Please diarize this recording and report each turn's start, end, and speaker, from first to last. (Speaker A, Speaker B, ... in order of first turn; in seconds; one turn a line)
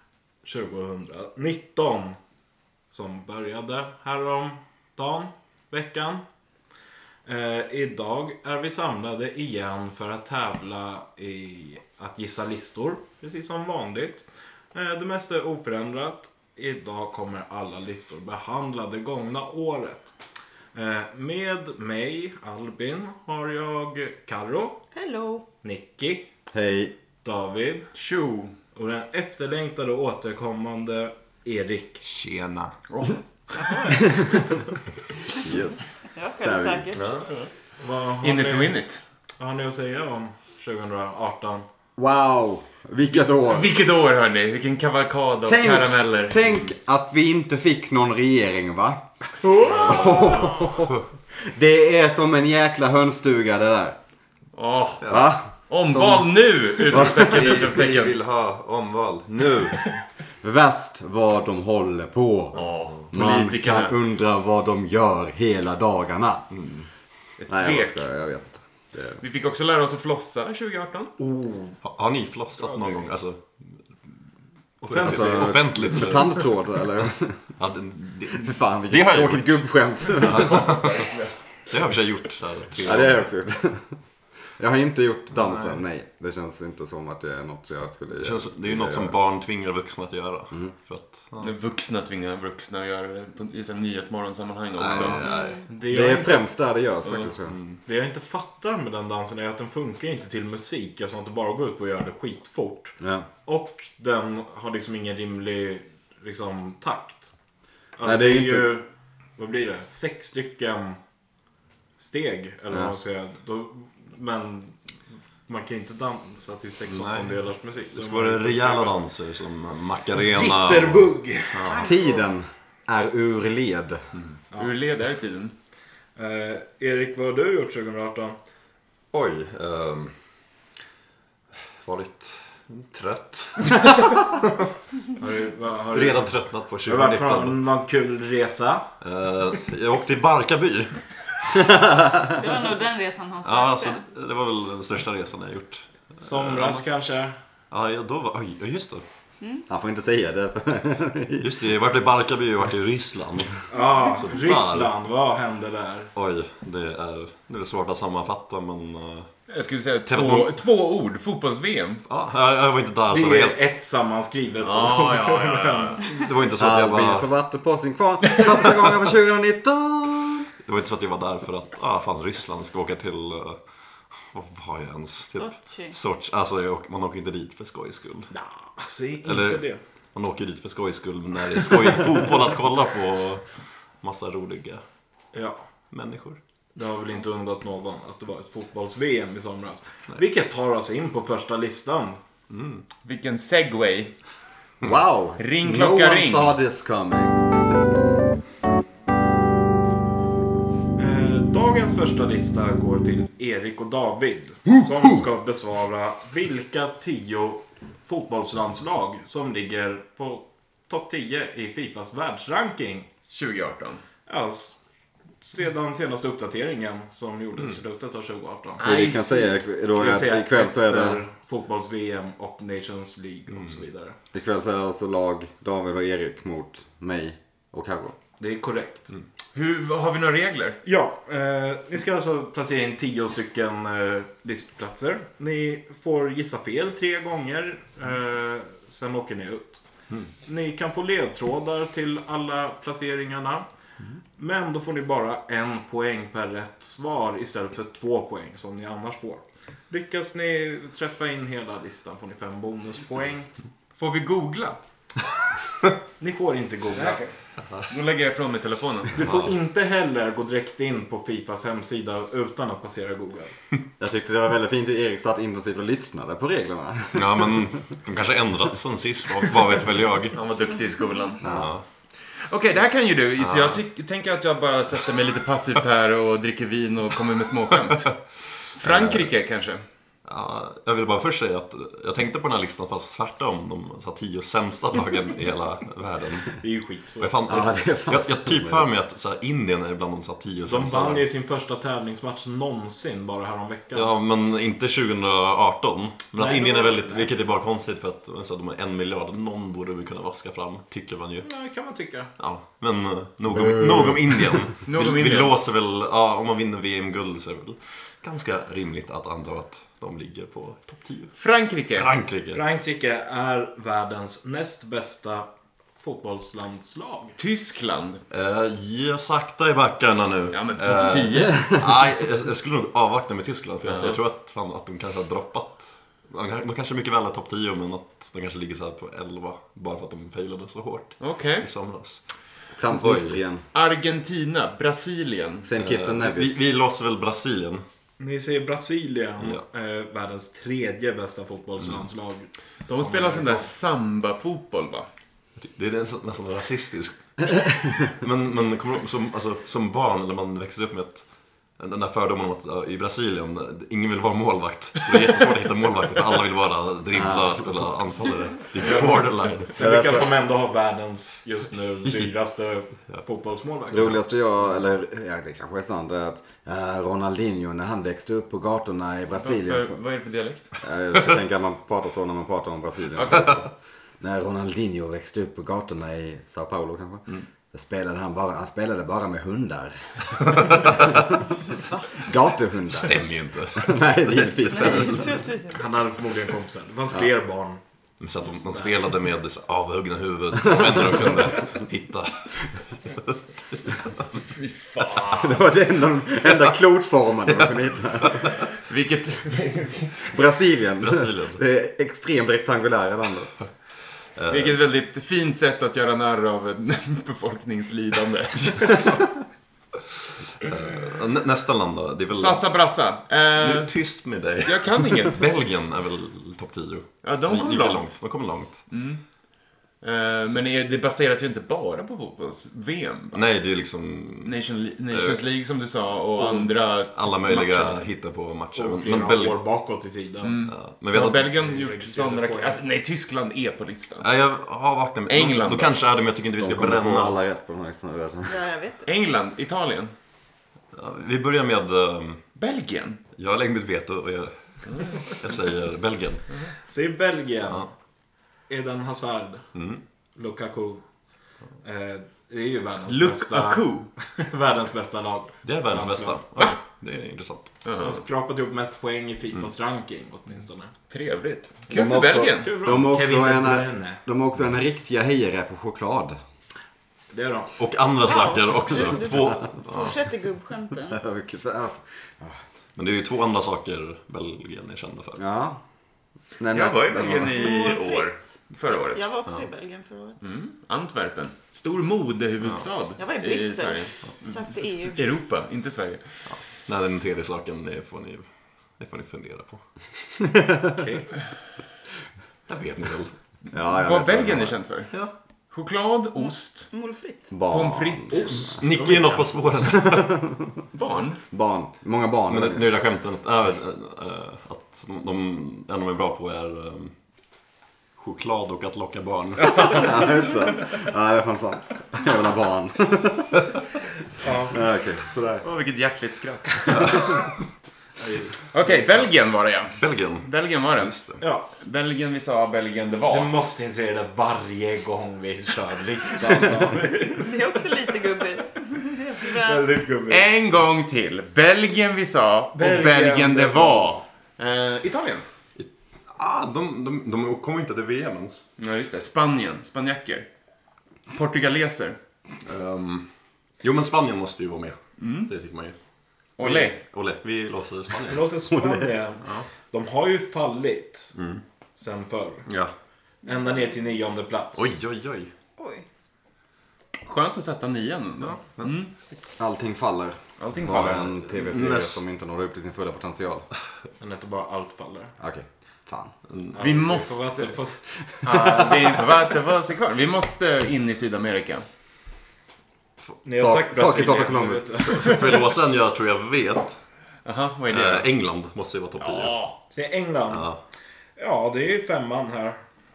Speaker A: 0.4-2.2
Speaker A: 2.9-6.2
Speaker A: 7.2-20.1
Speaker A: 20.7-24.8
Speaker B: 24.9-25.4
Speaker A: 25.6-26.3
Speaker C: 26.5-26.9
Speaker A: 27.2-27.9
Speaker D: 27.9-28.5
Speaker A: 28.7-32.0
Speaker E: 32.0-32.7
Speaker D: 32.9-34.0
Speaker C: 33.9-34.3
Speaker C: 35.3-37.0
Speaker B: 36.0-37.1
Speaker E: 36.9-37.3
Speaker D: 37.2-37.5
Speaker A: 37.8-38.8
Speaker D: 38.2-39.0
Speaker A: 39.4-41.6
Speaker C: 42.0-43.7
Speaker D: 43.1-46.4
Speaker C: 45.5-49.0
Speaker A: 49.5-50.4
Speaker C: 49.7-54.0
Speaker D: 49.7-50.4
Speaker D: 54.5-58.2
Speaker C: 55.1-56.2
Speaker C: 56.9-57.7
Speaker E: 57.3-59.8
Speaker C: 60.4-66.5
Speaker D: 62.5-64.0
Speaker E: 66.5-66.8
Speaker D: 67.4-68.0
Speaker C: 67.5-69.2
Speaker D: 69.2-71.2
Speaker A: 71.2-71.8
Speaker E: 71.8-73.4
Speaker A: 72.6-73.1
Speaker A: 74.8-75.4
Speaker E: 74.9-76.4
Speaker D: 74.9-75.5
Speaker C: 74.9-77.5
Speaker E: 77.6-81.0
Speaker C: 78.4-80.7
Speaker D: 80.4-81.3
Speaker E: 81.7-83.2
Speaker C: 82.8-84.0
Speaker C: 84.6-89.2
Speaker E: 85.3-85.8
Speaker E: 88.2-91.5
Speaker D: 91.4-95.2
Speaker E: 94.8-95.3
Speaker C: 94.8-97.5
Speaker B: 95.2-95.7
Speaker A: 95.7-96.5
Speaker E: 97.5-97.8
Speaker A: 97.8-107.3
Speaker C: 103.0-103.3
Speaker A: 108.0-111.0
Speaker C: 108.0-108.7
Speaker A: 112.0-114.8
Speaker A: 115.5-119.0
Speaker E: 116.9-117.4
Speaker E: 117.9-121.9
Speaker A: 120.1-121.8
Speaker B: 121.7-122.0
Speaker C: 121.8-124.1
Speaker D: 124.5-125.5
Speaker A: 126.2-128.3
Speaker E: 129.1-130.1
Speaker E: 131.8-134.7
Speaker A: 135.2-136.3
Speaker E: 135.9-137.6
Speaker A: 136.8-138.9
Speaker E: 139.0-141.0
Speaker C: 141.5-142.3
Speaker B: 142.3-144.0
Speaker E: 143.4-146.8
Speaker A: 146.2-147.4
Speaker E: 147.7-149.0
Speaker C: 149.7-151.6
Speaker E: 151.4-154.9
Speaker A: 153.7-156.1
Speaker E: 156.1-159.3
Speaker D: 159.5-162.0
Speaker E: 160.1-160.5
Speaker E: 162.1-163.6
Speaker A: 163.1-166.1
Speaker D: 164.6-166.1
Speaker E: 166.1-167.3
Speaker C: 166.6-170.5
Speaker E: 170.6-173.6
Speaker E: 174.2-178.3
Speaker B: 175.3-175.9
Speaker A: 178.3-179.8
Speaker E: 179.2-184.8
Speaker A: 185.3-185.7
Speaker E: 185.9-186.4
Speaker A: 186.7-192.2
Speaker E: 192.5-192.8
Speaker D: 193.0-194.2
Speaker C: 194.8-197.5
Speaker D: 195.4-196.6
Speaker A: 201.0-213.1
Speaker E: 204.7-205.2
Speaker D: 213.3-214.0
Speaker A: 214.2-214.8
Speaker A: 215.4-224.2
Speaker D: 218.8-219.3
Speaker C: 218.8-221.2
Speaker C: 224.3-228.2
Speaker A: 228.4-229.1
Speaker D: 229.5-230.8
Speaker A: 230.8-239.8
Speaker A: 240.4-243.6
Speaker A: 244.3-253.5
Speaker D: 254.0-254.8
Speaker A: 256.2-257.3
Speaker D: 256.9-259.1
Speaker A: 259.1-263.6
Speaker E: 259.2-259.6
Speaker C: 264.0-267.6
Speaker E: 267.1-270.4
Speaker D: 270.3-271.5
Speaker C: 271.4-271.7
Speaker E: 271.4-271.8
Speaker D: 272.2-278.2
Speaker E: 273.4-273.8
Speaker D: 278.7-279.8
Speaker E: 278.8-279.3
Speaker E: 280.2-286.6
Speaker A: 286.6-287.5
Speaker E: 287.2-291.2
Speaker C: 287.5-288.9
Speaker A: 290.6-294.1
Speaker E: 293.9-301.4
Speaker A: 296.4-297.3
Speaker A: 301.4-302.3
Speaker E: 302.4-311.3
Speaker D: 304.9-305.6
Speaker D: 311.4-312.1
Speaker E: 311.9-312.6
Speaker A: 312.5-315.5
Speaker A: 316.0-317.4
Speaker D: 317.4-318.2
Speaker E: 318.3-332.2
Speaker D: 320.5-321.6
Speaker D: 323.8-324.2
Speaker D: 331.2-331.7
Speaker C: 332.7-333.6
Speaker E: 332.9-333.4
Speaker D: 333.7-335.7
Speaker C: 335.6-336.6
Speaker E: 335.8-337.8
Speaker A: 338.2-343.7
Speaker D: 342.9-345.1
Speaker E: 345.6-351.2
Speaker E: 351.8-359.8
Speaker C: 357.1-357.9
Speaker D: 358.8-359.1
Speaker A: 359.7-364.2
Speaker C: 359.8-360.3
Speaker C: 363.9-370.0
Speaker D: 369.3-370.7
Speaker C: 370.8-373.7
Speaker D: 373.1-373.6
Speaker C: 374.2-381.3
Speaker E: 380.4-381.3
Speaker C: 382.2-383.2
Speaker E: 382.9-384.8
Speaker C: 383.7-385.4
Speaker B: 384.7-385.8
Speaker A: 385.7-387.8
Speaker E: 388.2-393.8
Speaker D: 394.5-395.6
Speaker C: 395.3-398.5
Speaker D: 398.9-400.4
Speaker C: 400.3-403.5
Speaker E: 401.0-401.6
Speaker E: 404.4-404.8
Speaker D: 404.5-409.2
Speaker E: 410.6-412.6
Speaker D: 412.3-413.9
Speaker E: 413.6-418.9
Speaker D: 414.6-415.4
Speaker D: 417.2-418.1
Speaker D: 418.9-419.2
Speaker D: 420.0-423.4
Speaker E: 423.3-424.5
Speaker D: 424.4-428.1
Speaker E: 425.1-425.4
Speaker E: 426.4-429.6
Speaker A: 428.7-430.6
Speaker D: 430.4-434.3
Speaker E: 430.7-431.5
Speaker A: 431.6-432.8
Speaker E: 434.2-437.4
Speaker D: 435.3-435.9
Speaker C: 436.6-438.6
Speaker B: 438.4-439.1
Speaker D: 439.0-440.1
Speaker E: 440.9-442.4
Speaker D: 442.6-443.2
Speaker E: 443.4-444.5
Speaker D: 444.9-445.2
Speaker E: 445.2-446.4
Speaker A: 446.9-447.9
Speaker A: 448.7-449.7
Speaker E: 449.7-450.0
Speaker A: 450.3-451.0
Speaker A: 451.8-456.4
Speaker D: 453.1-454.1
Speaker E: 455.6-457.7
Speaker D: 457.8-458.2
Speaker A: 458.0-460.9
Speaker D: 461.1-462.7
Speaker C: 461.9-466.4
Speaker A: 462.6-464.2
Speaker A: 467.3-467.7
Speaker E: 467.8-470.3
Speaker B: 468.2-471.2
Speaker C: 471.1-472.6
Speaker E: 472.9-475.4
Speaker C: 475.4-475.8
Speaker C: 476.6-477.8
Speaker D: 476.7-479.2
Speaker B: 477.4-480.4
Speaker D: 480.4-486.7
Speaker B: 483.2-485.2
Speaker E: 486.4-489.8
Speaker C: 490.6-491.0
Speaker A: 490.9-491.3
Speaker E: 492.7-493.3
Speaker C: 493.7-494.7
Speaker D: 493.8-495.1
Speaker D: 495.7-496.9
Speaker B: 496.4-497.5
Speaker C: 497.5-498.6
Speaker D: 497.7-499.1
Speaker A: 498.3-499.4
Speaker E: 498.6-500.4
Speaker C: 499.8-500.7
Speaker D: 500.9-501.4
Speaker C: 501.5-502.9
Speaker E: 502.5-507.1
Speaker E: 508.2-510.3
Speaker C: 509.8-513.7
Speaker A: 514.4-514.8
Speaker C: 514.7-515.6
Speaker D: 515.6-517.4
Speaker E: 516.9-517.4
Speaker A: 518.2-519.1
Speaker D: 518.7-523.5
Speaker E: 520.0-521.4
Speaker A: 521.4-521.6
Speaker A: 523.3-527.7
Speaker B: 527.4-529.8
Speaker A: 529.5-530.4
Speaker D: 530.3-535.5
Speaker A: 532.7-534.2
Speaker E: 535.8-538.7
Speaker D: 538.8-540.5
Speaker D: 541.3-542.2
Speaker E: 542.6-543.2
Speaker E: 543.8-546.0
Speaker D: 545.2-545.5
Speaker D: 546.6-547.0
Speaker E: 546.6-548.6
Speaker A: 548.3-551.3
Speaker E: 551.3-551.6
Speaker A: 552.0-552.6
Speaker E: 552.6-552.9
Speaker A: 553.4-554.9
Speaker E: 554.7-555.5
Speaker B: 555.8-556.0
Speaker D: 557.2-559.2
Speaker C: 559.6-563.7
Speaker D: 560.6-561.4
Speaker E: 561.5-562.2
Speaker A: 564.2-565.3
Speaker C: 565.4-566.3
Speaker E: 566.5-566.8
Speaker A: 566.7-568.0
Speaker D: 566.8-567.8
Speaker D: 568.4-571.9
Speaker C: 568.4-569.0
Speaker A: 573.4-575.7
Speaker C: 573.6-574.9
Speaker E: 575.0-577.0
Speaker D: 577.4-578.3
Speaker E: 577.9-579.5
Speaker D: 579.2-579.8
Speaker A: 579.9-580.7
Speaker E: 580.5-580.8
Speaker A: 581.4-582.8